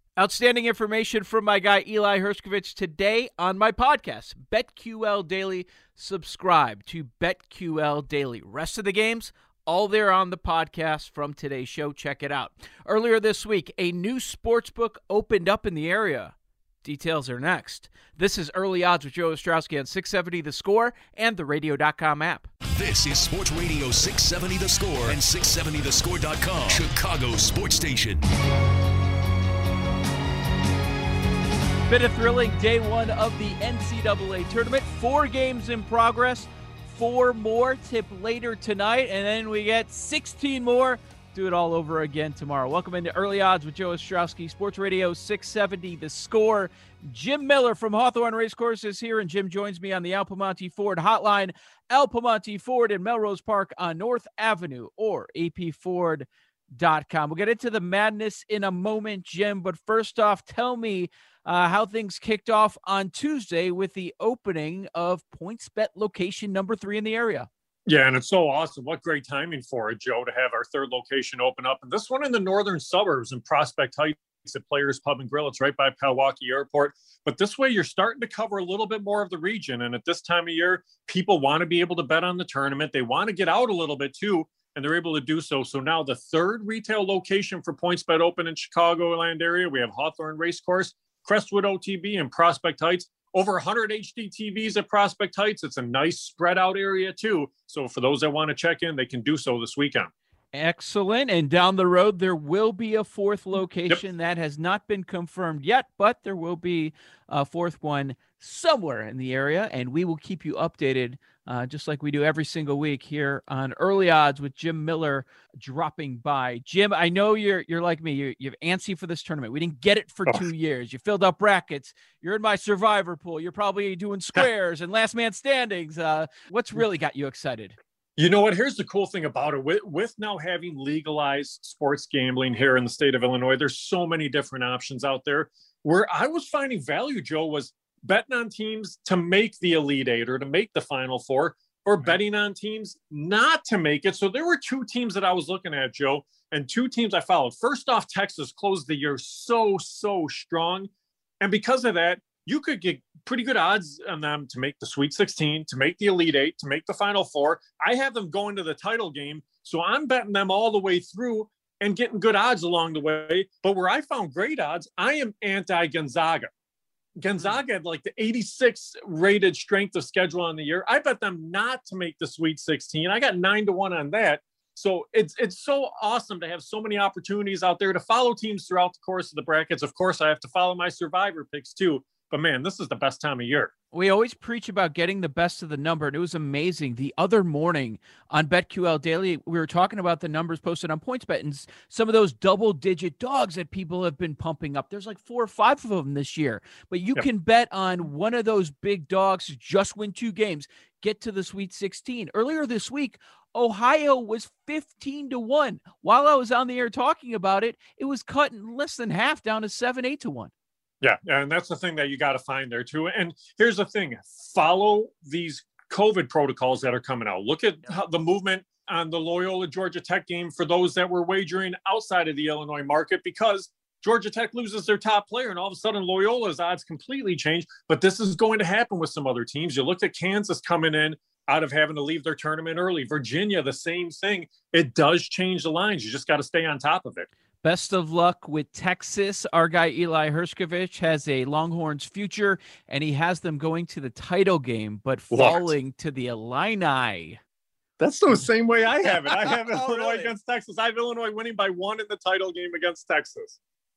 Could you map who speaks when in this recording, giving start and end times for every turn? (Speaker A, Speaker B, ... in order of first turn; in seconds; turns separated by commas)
Speaker A: 0.2-22.5, Speaker B: 22.7-28.2, Speaker A: 31.9-67.5, Speaker C: 67.9-100.1, Speaker A: 100.5-127.8, Speaker C: 128.2-150.9, Speaker C: 151.4-166.5, Speaker C: 167.2-183.7, Speaker A: 183.9-210.5, Speaker C: 211.0-237.3, Speaker A: 237.6-247.4, Speaker C: 245.3-245.7, Speaker C: 248.0-253.6, Speaker A: 249.5-250.3